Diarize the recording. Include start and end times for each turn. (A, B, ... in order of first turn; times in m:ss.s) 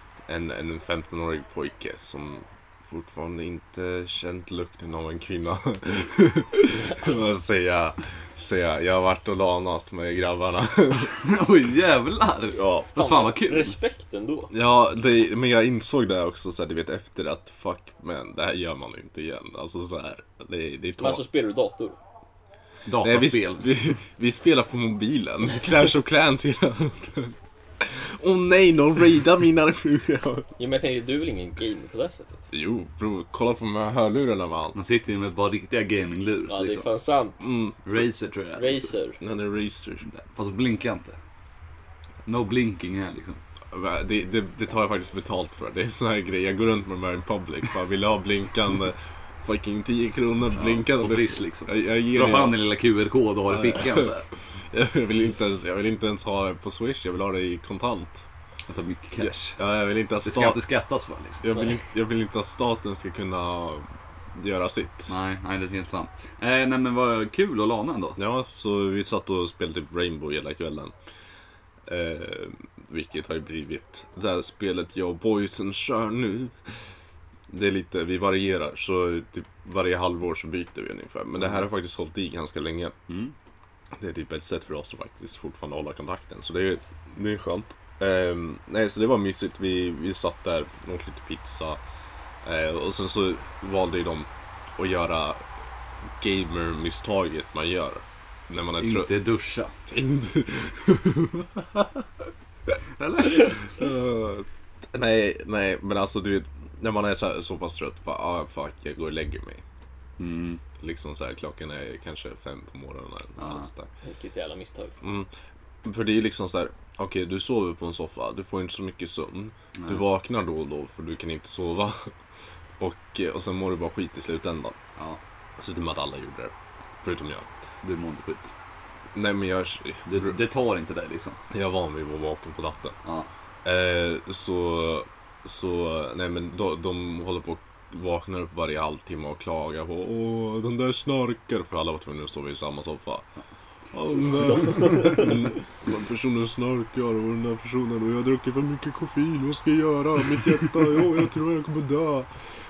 0:00.3-0:11.1 A
0:11.2-0:13.8 B
0:12.9-0:14.5 C
0:14.5-0:21.2 A
0:21.0-0:22.0 C
0:22.8-0:23.7 B
0:23.0-0:30.5 A
0:30.6-0:32.4 C
0:32.5-0:34.8 A
0:34.7-0:36.9 B
0:36.5-0:37.4 C
0:37.4-0:37.8 A
0:37.8-0:38.9 B
0:38.6-0:39.2 C
0:39.2-0:40.1 A
0:40.1-0:41.2 B
0:42.2-0:43.4 B
0:43.7-0:52.6 A
0:50.5-0:54.3 B
0:53.5-0:54.1 A
0:54.7-0:58.2 A
0:58.7-0:59.6 B
0:59.2-1:00.6 A
1:00.2-1:01.5 B
1:01.4-1:05.1 A
1:05.1-1:08.2 B
1:08.2-1:10.9 A
1:11.9-1:16.6 A
1:17.5-1:22.9 A
1:24.0-1:31.8 A
1:32.4-1:35.4 A
1:36.2-1:39.1 A
1:38.8-1:39.7 B
1:39.9-1:42.0 A
1:42.7-1:49.6 A
1:50.2-1:50.6 B
1:50.8-1:53.9 A
1:53.4-1:53.7 B
1:54.0-1:54.9 C
1:55.0-1:55.3 A
1:55.8-2:02.1 A
1:59.8-2:00.0 B
2:02.8-2:04.8 A
2:05.6-2:07.5 A
2:07.8-2:08.5 B
2:09.1-2:10.4 A
2:10.1-2:11.4 B
2:11.5-2:13.0 A
2:13.6-2:23.2 A
2:23.9-2:32.3 A
2:24.4-2:25.4 C